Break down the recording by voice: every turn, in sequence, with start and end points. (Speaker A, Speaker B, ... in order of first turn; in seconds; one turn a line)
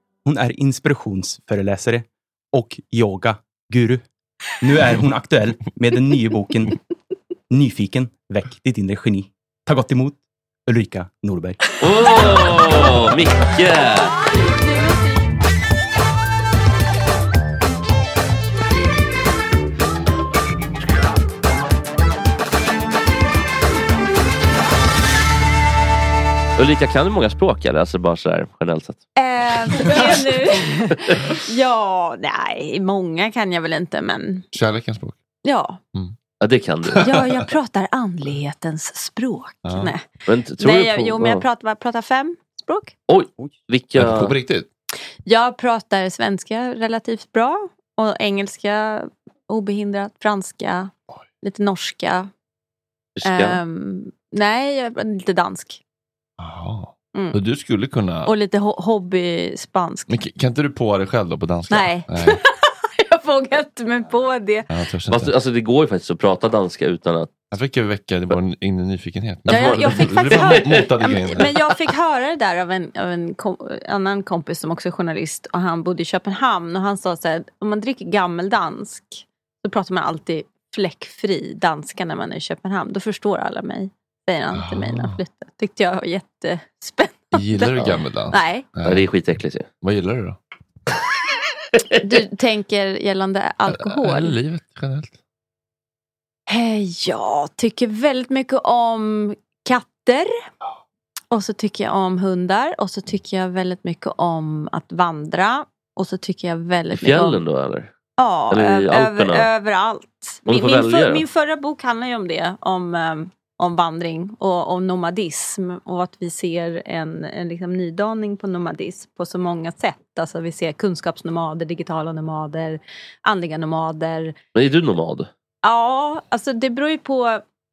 Speaker A: 0.2-4.0
Speaker A: 4.6-6.8
Speaker A: 7.5-11.6
Speaker B: 11.8-14.2
Speaker B: 26.6-29.0
Speaker C: 29.2-34.4
Speaker D: 34.5-35.2
Speaker C: 35.4-35.8
Speaker B: 36.4-37.1
Speaker D: 36.9-37.2
Speaker C: 37.0-40.0
Speaker D: 39.6-39.9
Speaker B: 40.2-41.5
Speaker C: 40.6-43.0
Speaker B: 43.1-44.3
Speaker D: 44.0-44.7
Speaker C: 45.2-52.3
Speaker B: 53.1-53.6
Speaker C: 53.2-55.8
Speaker D: 56.4-58.3
Speaker C: 58.2-60.1
Speaker D: 60.1-62.4
Speaker C: 61.7-64.7
Speaker D: 64.7-65.3
Speaker B: 65.1-67.3
Speaker D: 67.5-71.5
Speaker C: 69.5-88.7
Speaker B: 69.5-70.8
Speaker D: 84.5-85.2
Speaker D: 87.3-89.1
Speaker B: 88.8-89.7
Speaker D: 89.8-90.4
Speaker C: 92.0-94.4
Speaker D: 93.7-95.1
Speaker C: 96.5-100.3
Speaker C: 101.3-107.4
Speaker B: 106.9-107.9
Speaker C: 108.2-124.3
Speaker B: 108.5-109.5
Speaker B: 110.5-111.2
Speaker B: 124.5-125.3
Speaker C: 125.6-127.4